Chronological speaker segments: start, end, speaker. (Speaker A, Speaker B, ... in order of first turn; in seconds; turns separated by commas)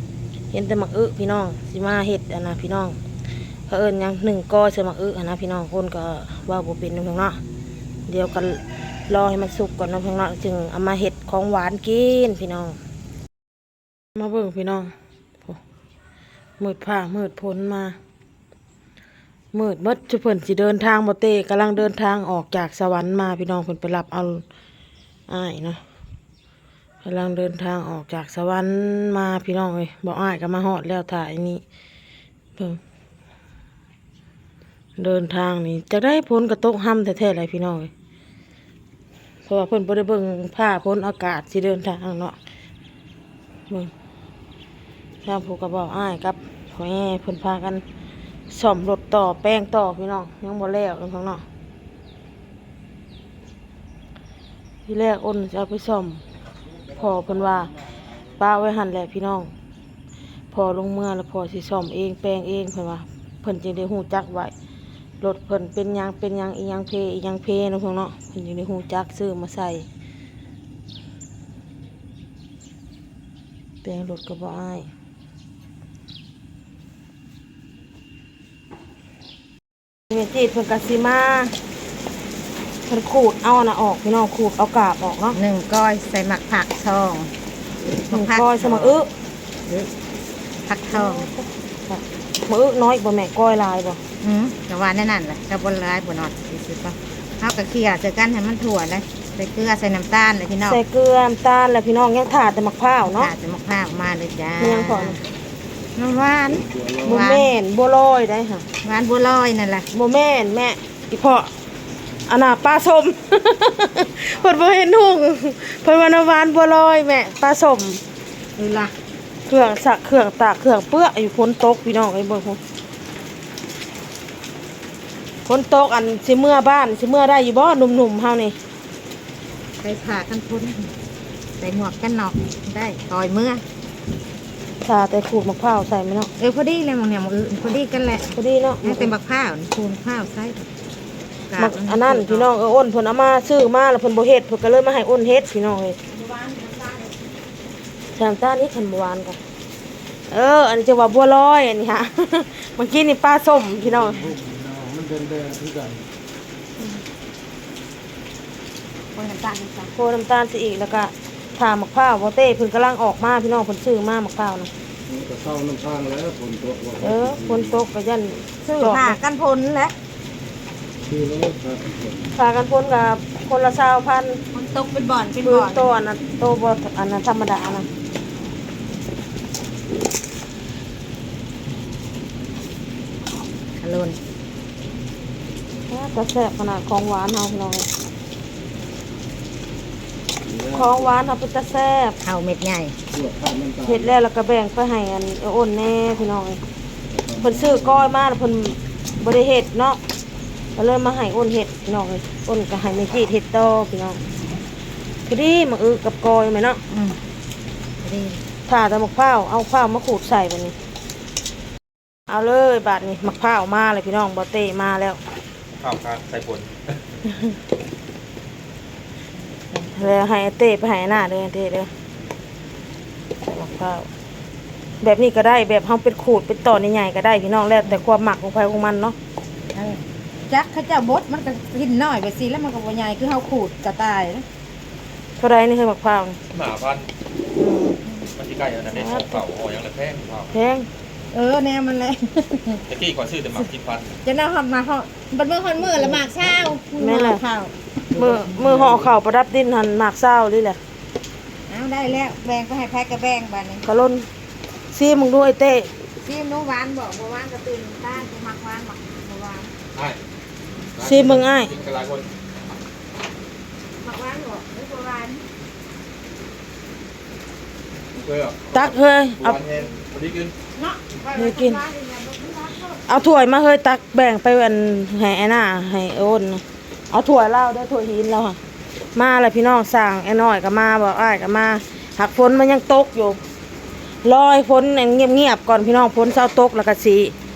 Speaker A: 0.5-3.0, Speaker A: 3.7-7.4, Speaker A: 8.1-12.8, Speaker A: 14.2-14.9, Speaker A: 16.6-18.0, Speaker A: 19.5-24.4, Speaker A: 25.3-25.8, Speaker A: 27.0-31.6, Speaker A: 35.0-37.9, Speaker A: 39.5-42.4, Speaker A: 45.2-47.8, Speaker A: 48.5-51.4, Speaker A: 54.9-56.2, Speaker A: 56.9-57.7, Speaker A: 58.3-59.5, Speaker A: 60.5-64.5, Speaker A: 65.2-69.9, Speaker A: 73.8-74.9, Speaker A: 80.1-81.5, Speaker A: 82.9-85.4, Speaker B: 85.3-87.3, Speaker B: 88.1-89.0, Speaker A: 88.1-89.1, Speaker B: 90.7-91.3, Speaker A: 90.9-94.0, Speaker B: 94.2-100.8, Speaker A: 100.7-103.3, Speaker B: 103.1-105.2, Speaker A: 104.6-105.2, Speaker B: 106.0-107.5, Speaker C: 106.7-107.2, Speaker A: 107.0-108.7, Speaker B: 108.8-109.9, Speaker A: 109.9-111.5, Speaker A: 112.3-118.0, Speaker B: 118.6-118.9, Speaker A: 119.5-122.6, Speaker A: 125.5-128.6, Speaker B: 129.8-130.9, Speaker B: 131.6-133.6, Speaker A: 134.8-136.3, Speaker B: 136.4-140.7, Speaker A: 138.3-139.1, Speaker B: 141.5-142.5, Speaker A: 141.6-146.0, Speaker B: 146.1-147.2, Speaker A: 148.2-149.4, Speaker A: 150.3-154.3, Speaker C: 154.0-156.1, Speaker B: 159.2-159.9, Speaker A: 159.9-164.7, Speaker C: 165.1-167.8, Speaker A: 167.0-169.2, Speaker B: 168.6-169.9, Speaker C: 171.1-172.3, Speaker A: 172.3-174.4, Speaker B: 174.5-175.9, Speaker A: 175.4-177.9, Speaker B: 183.8-184.2, Speaker A: 185.9-187.9, Speaker C: 190.4-191.1, Speaker A: 190.7-192.2, Speaker B: 192.2-193.0, Speaker C: 193.1-194.1, Speaker A: 193.8-196.6, Speaker C: 197.1-197.8, Speaker A: 197.4-200.0, Speaker A: 200.8-204.2, Speaker A: 205.3-206.8, Speaker B: 206.9-207.2, Speaker B: 208.0-208.4, Speaker A: 208.7-210.8, Speaker A: 212.3-215.2, Speaker D: 215.8-217.0, Speaker A: 219.8-221.9, Speaker A: 223.4-224.1, Speaker A: 225.0-229.2, Speaker B: 229.7-234.4, Speaker A: 235.4-236.4, Speaker D: 236.5-237.1, Speaker A: 237.6-238.0, Speaker D: 238.3-240.5, Speaker A: 238.9-239.4, Speaker A: 240.5-240.9, Speaker B: 241.3-242.8, Speaker D: 242.9-244.1, Speaker B: 244.2-247.7, Speaker A: 247.0-247.4, Speaker A: 248.1-250.8, Speaker B: 251.7-253.8, Speaker A: 253.8-254.3, Speaker A: 254.9-255.9, Speaker B: 256.2-259.7, Speaker D: 259.9-260.2, Speaker D: 260.9-262.2, Speaker A: 261.0-261.7, Speaker B: 264.0-265.4, Speaker D: 268.1-270.5, Speaker A: 268.7-269.6, Speaker B: 270.8-273.1, Speaker A: 271.3-271.8, Speaker A: 273.1-278.6, Speaker A: 279.1-283.4, Speaker A: 284.2-287.3